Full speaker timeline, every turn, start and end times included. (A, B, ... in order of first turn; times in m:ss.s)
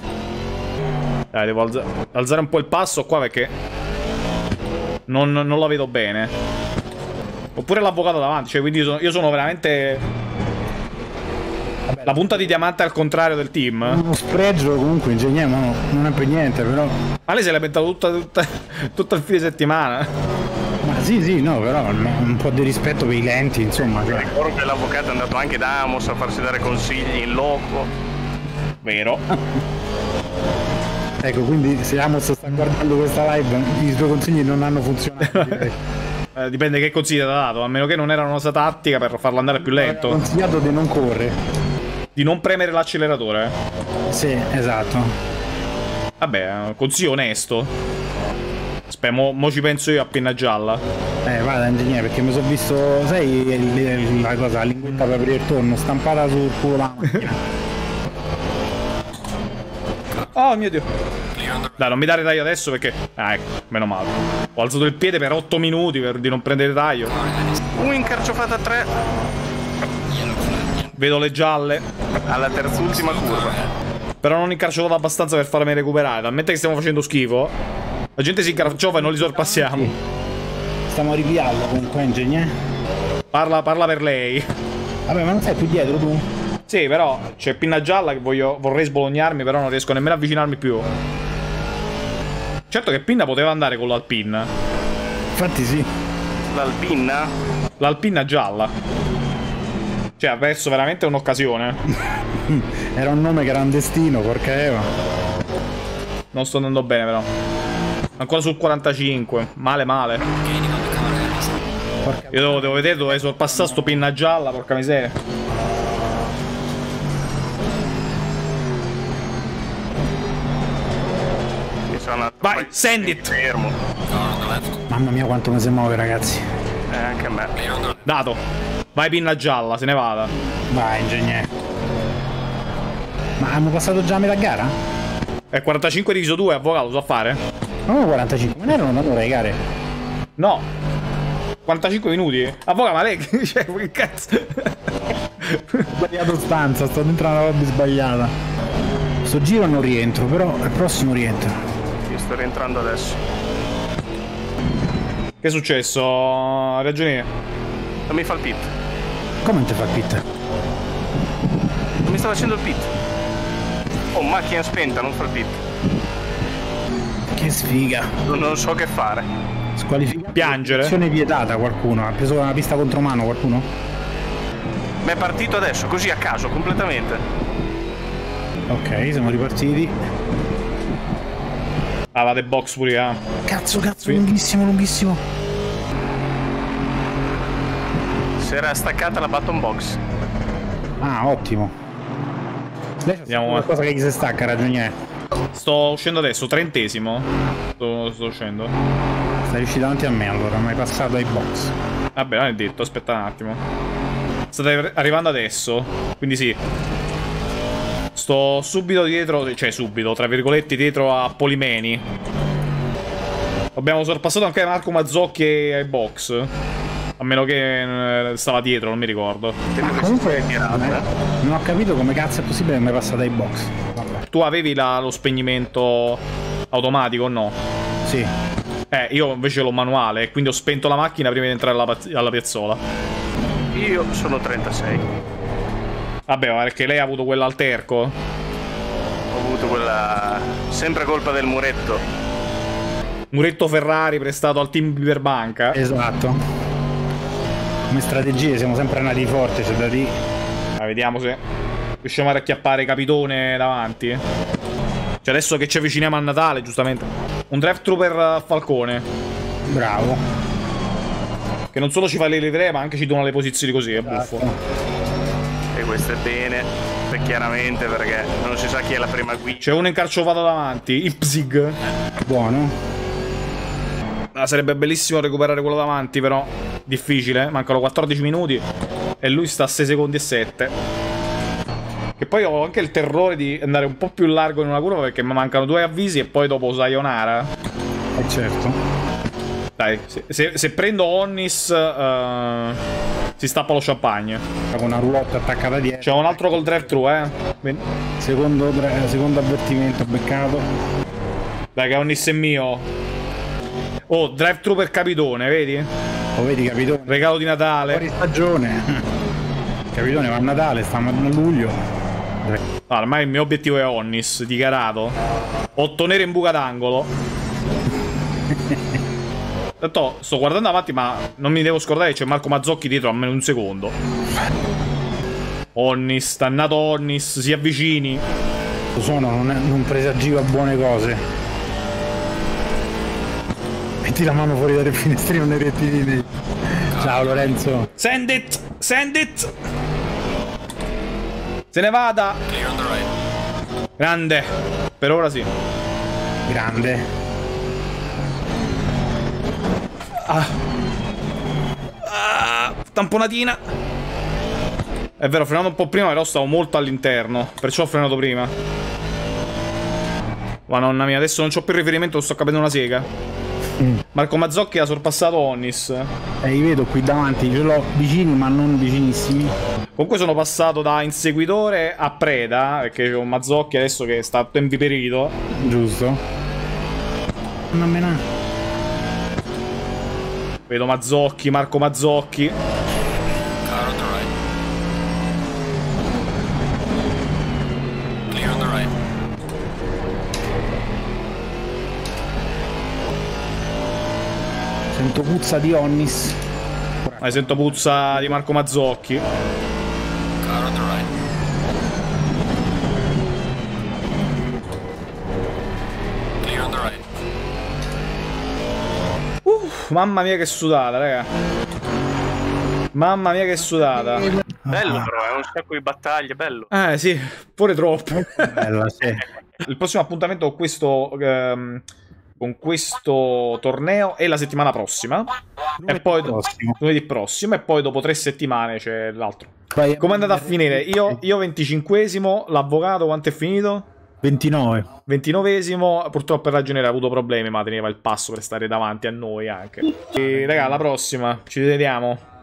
0:01.3-0:03.5 A
0:05.1-0:06.3 A
0:07.6-0:10.0 A
0:11.9-0:12.6 B
0:12.1-0:14.0 A
0:13.8-0:17.0 B
0:17.3-0:20.1 A
0:20.8-0:24.3 B
0:24.0-0:27.9 C
0:28.8-0:29.2 A
0:31.2-0:35.8 B
0:35.2-0:35.7 A
0:36.4-0:40.2 A
0:39.6-0:41.4 B
0:42.2-0:43.6 A
0:44.1-0:45.1 B
0:46.2-0:47.7 A
0:48.9-0:50.8 A
0:51.2-0:57.4 B
1:00.3-1:00.9 A
1:01.8-1:07.2 A
1:07.8-1:08.9 C
1:10.1-1:10.7 D
1:11.0-1:11.8 A
1:12.3-1:13.7 C
1:14.2-1:17.5 A
1:18.2-1:19.9 A
1:18.6-1:19.9 B
1:20.9-1:22.5 B
1:23.3-1:24.5 A
1:25.1-1:26.2 B
1:26.7-1:30.9 A
1:32.7-1:34.5 A
1:35.4-1:35.9 B
1:36.5-1:37.3 C
1:37.8-1:38.7 A
1:40.2-1:41.8 A
1:42.1-1:44.9 B
1:46.3-1:47.3 A
1:48.2-1:50.2 A
1:50.4-1:51.5 D
1:52.0-1:53.8 B
1:52.3-1:55.1 A
2:01.9-2:03.8 C
2:02.4-2:03.3 A
2:04.2-2:04.5 D
2:04.9-2:06.4 B
2:06.9-2:07.6 C
2:08.1-2:08.4 A
2:09.0-2:10.3 A
2:10.5-2:11.5 B
2:13.4-2:14.8 B
2:15.5-2:17.4 A
2:17.9-2:19.6 B
2:20.4-2:20.7 A
2:21.7-2:24.8 A
2:25.4-2:25.9 A
2:25.9-2:28.3 B
2:29.2-2:31.6 B
2:32.1-2:33.2 C
2:35.4-2:37.3 A
2:38.1-2:38.7 C
2:39.4-2:40.2 B
2:42.0-2:42.9 C
2:44.1-2:45.6 C
2:47.4-2:48.2 B
2:48.3-2:49.3 C
2:49.8-2:53.7 B
2:50.4-2:51.0 A
2:55.0-2:57.2 C
2:58.7-3:00.0 B
3:02.1-3:03.2 A
3:03.5-3:05.2 B
3:08.4-3:10.0 C
3:11.0-3:11.7 B
3:13.0-3:14.9 B
3:13.3-3:13.7 A
3:15.5-3:18.7 A
3:19.5-3:21.7 B
3:22.2-3:23.6 A
3:24.5-3:26.6 A
3:28.1-3:32.0 A
3:33.8-3:36.5 A
3:37.2-3:39.6 A
3:39.8-3:41.0 C
3:39.8-3:44.2 B
3:44.3-3:47.6 A
3:48.0-3:48.3 B
3:48.9-3:52.8 A
3:53.7-3:55.0 C
3:56.3-3:58.2 A
3:59.3-4:02.0 C
4:03.3-4:05.8 A
4:05.7-4:06.4 B
4:07.9-4:10.1 B
4:10.8-4:11.4 A
4:12.0-4:14.2 A
4:15.2-4:19.0 A
4:19.7-4:20.2 B
4:21.7-4:24.4 A
4:24.0-4:24.6 B
4:25.8-4:29.6 C
4:29.6-4:31.8 A
4:32.3-4:32.8 B
4:34.3-4:38.6 A
4:39.2-4:40.7 A
4:42.2-4:47.5 A
4:48.2-4:48.8 B
4:49.8-4:52.8 A
4:53.4-4:54.4 A
4:54.7-4:56.9 B
4:56.0-4:57.8 A
4:58.2-5:00.7 B
5:01.8-5:02.9 A
5:04.1-5:05.9 A
5:06.4-5:07.3 B
5:07.1-5:08.0 A
5:07.9-5:09.0 B
5:09.9-5:11.8 B
5:12.9-5:15.1 A
5:15.8-5:17.1 A
5:18.5-5:18.8 B
5:19.8-5:23.9 A
5:25.8-5:28.2 A
5:28.9-5:31.2 B
5:34.0-5:37.9 B
5:38.0-5:39.5 A
5:41.7-5:42.5 A
5:44.0-5:44.5 A
5:45.0-5:45.5 A
5:46.5-5:47.1 B
5:50.2-5:50.6 A
5:52.0-5:53.6 A
5:55.2-5:58.5 A
6:00.7-6:03.1 A
6:04.1-6:06.1 A
6:06.4-6:09.5 B
6:10.0-6:15.4 A
6:15.6-6:16.2 B
6:17.7-6:18.2 B
6:20.7-6:22.6 A
6:23.6-6:24.3 D
6:28.3-6:28.9 D
6:34.9-6:36.4 B
6:37.0-6:38.4 B
6:37.2-6:39.2 A
6:40.4-6:41.0 D
6:46.4-6:46.9 D
6:49.4-6:51.3 A
6:52.9-6:54.4 A
6:54.5-6:55.1 B
6:54.7-6:56.7 C
6:56.7-6:58.7 A
6:58.1-6:59.2 B
6:59.6-7:01.8 A
7:02.4-7:05.3 A
7:05.8-7:06.8 B
7:05.9-7:13.9 A
7:09.7-7:11.2 B
7:14.2-7:14.9 B
7:15.1-7:22.2 A
7:20.2-7:20.8 B